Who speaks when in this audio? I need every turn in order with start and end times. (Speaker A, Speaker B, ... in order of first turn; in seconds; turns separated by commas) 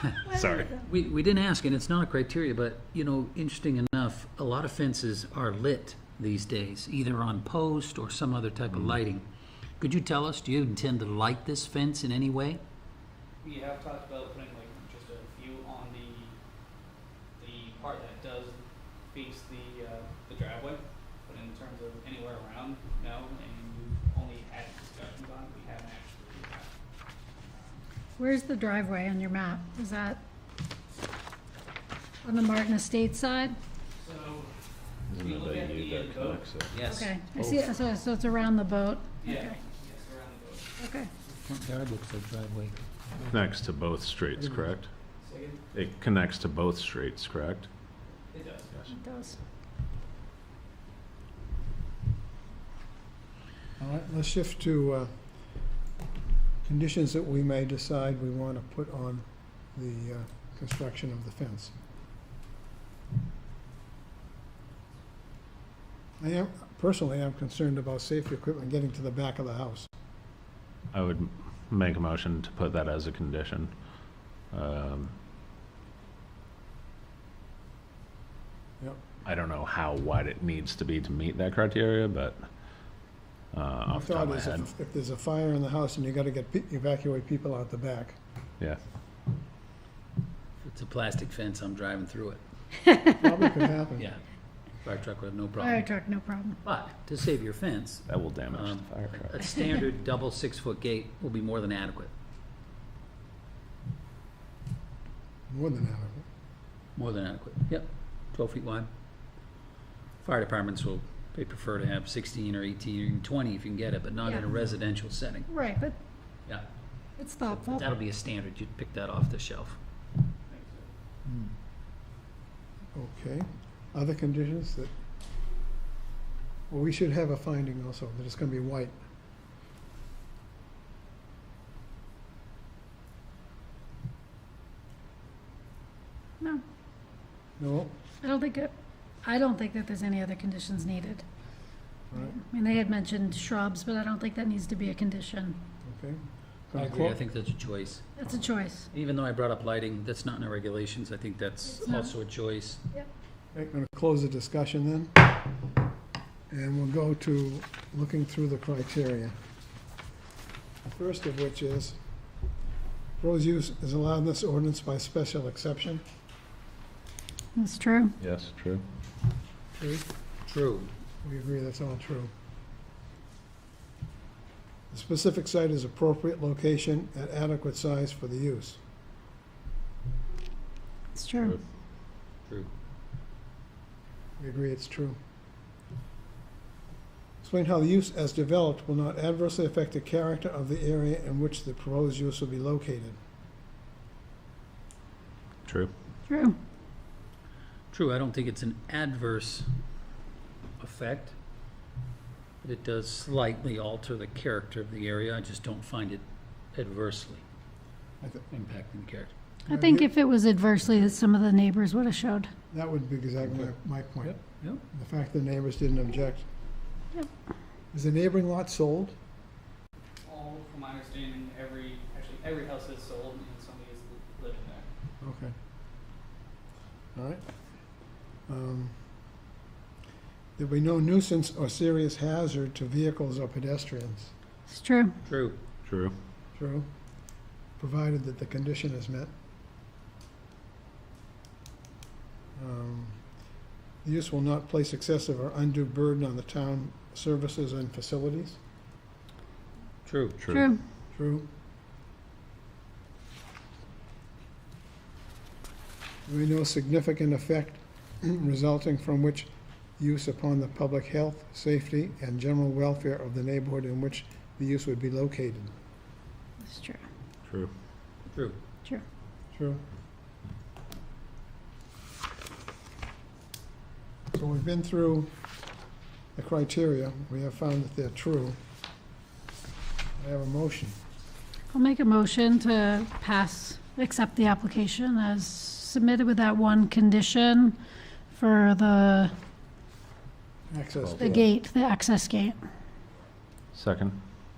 Speaker A: 0.3-0.7, Speaker B: 0.8-9.2, Speaker B: 9.8-12.6, Speaker C: 13.4-16.4, Speaker C: 17.4-26.7, Speaker C: 27.4-27.8, Speaker D: 28.2-30.2, Speaker D: 32.2-33.6, Speaker C: 34.0-34.5, Speaker A: 35.1-36.7, Speaker C: 35.2-37.1, Speaker E: 35.3-36.3, Speaker B: 36.7-37.1, Speaker D: 36.9-39.6, Speaker C: 39.2-40.7, Speaker D: 40.8-41.1, Speaker B: 41.3-42.8, Speaker A: 43.3-43.6, Speaker E: 43.3-44.9, Speaker A: 44.2-44.6, Speaker F: 44.4-44.7, Speaker C: 45.2-45.6, Speaker E: 45.8-47.7, Speaker C: 48.3-48.7, Speaker D: 48.9-49.4, Speaker F: 53.8-55.1, Speaker F: 56.6-61.7, Speaker F: 66.2-69.9, Speaker E: 70.9-73.7, Speaker E: 74.5-75.1, Speaker E: 79.3-82.5, Speaker E: 83.5-84.6, Speaker F: 83.9-88.2, Speaker B: 90.6-92.4, Speaker F: 93.2-94.1, Speaker B: 94.8-95.9, Speaker D: 95.6-96.6, Speaker B: 96.6-102.1, Speaker A: 98.3-99.3, Speaker F: 105.5-106.2, Speaker B: 107.0-108.9, Speaker B: 110.2-115.5, Speaker D: 115.5-116.0, Speaker D: 117.2-117.9, Speaker B: 117.5-119.8, Speaker C: 120.5-120.9, Speaker B: 121.3-121.5, Speaker F: 122.9-124.9, Speaker F: 126.7-129.0, Speaker F: 137.6-137.9, Speaker D: 138.2-138.7, Speaker D: 139.2-141.2, Speaker D: 142.2-145.6, Speaker F: 145.8-146.2, Speaker F: 146.7-147.2, Speaker B: 146.8-148.0, Speaker D: 148.2-148.9, Speaker B: 148.9-152.8, Speaker D: 151.8-152.1, Speaker F: 153.5-155.2, Speaker F: 156.5-159.3, Speaker F: 160.9-162.0, Speaker F: 163.2-166.0, Speaker D: 167.6-168.2, Speaker E: 168.2-168.8, Speaker F: 169.8-170.0, Speaker B: 170.5-170.9, Speaker F: 171.2-172.3, Speaker F: 174.9-178.8, Speaker D: 181.2-181.6, Speaker F: 184.4-185.2, Speaker F: 187.4-193.2, Speaker D: 196.3-196.6, Speaker B: 197.9-199.7, Speaker B: 200.8-201.3, Speaker B: 202.6-206.2, Speaker B: 206.7-207.4, Speaker B: 208.5-209.3, Speaker F: 209.7-210.1, Speaker D: 209.7-212.5, Speaker F: 212.7-214.4, Speaker B: 213.4-213.7, Speaker B: 214.2-214.8, Speaker F: 214.9-216.5, Speaker F: 217.9-219.2, Speaker C: 220.2-224.9, Speaker F: 225.2-225.5, Speaker F: 227.2-227.4, Speaker F: 228.5-229.0, Speaker F: 230.6-234.3, Speaker D: 234.7-235.2, Speaker B: 235.3-235.6, Speaker F: 236.6-236.9, Speaker F: 237.8-239.3, Speaker F: 242.6-243.2, Speaker F: 244.0-248.6, Speaker B: 250.1-250.4, Speaker D: 250.5-250.8, Speaker F: 251.1-251.5, Speaker F: 256.3-265.7, Speaker D: 266.6-267.0, Speaker B: 268.3-268.6, Speaker F: 269.5-269.8, Speaker F: 274.3-275.3, Speaker F: 276.4-278.6, Speaker F: 280.2-281.0, Speaker D: 281.7-287.8, Speaker D: 288.3-289.3, Speaker F: 290.7-291.3, Speaker A: 291.0-291.4, Speaker D: 291.2-292.6, Speaker E: 293.8-294.2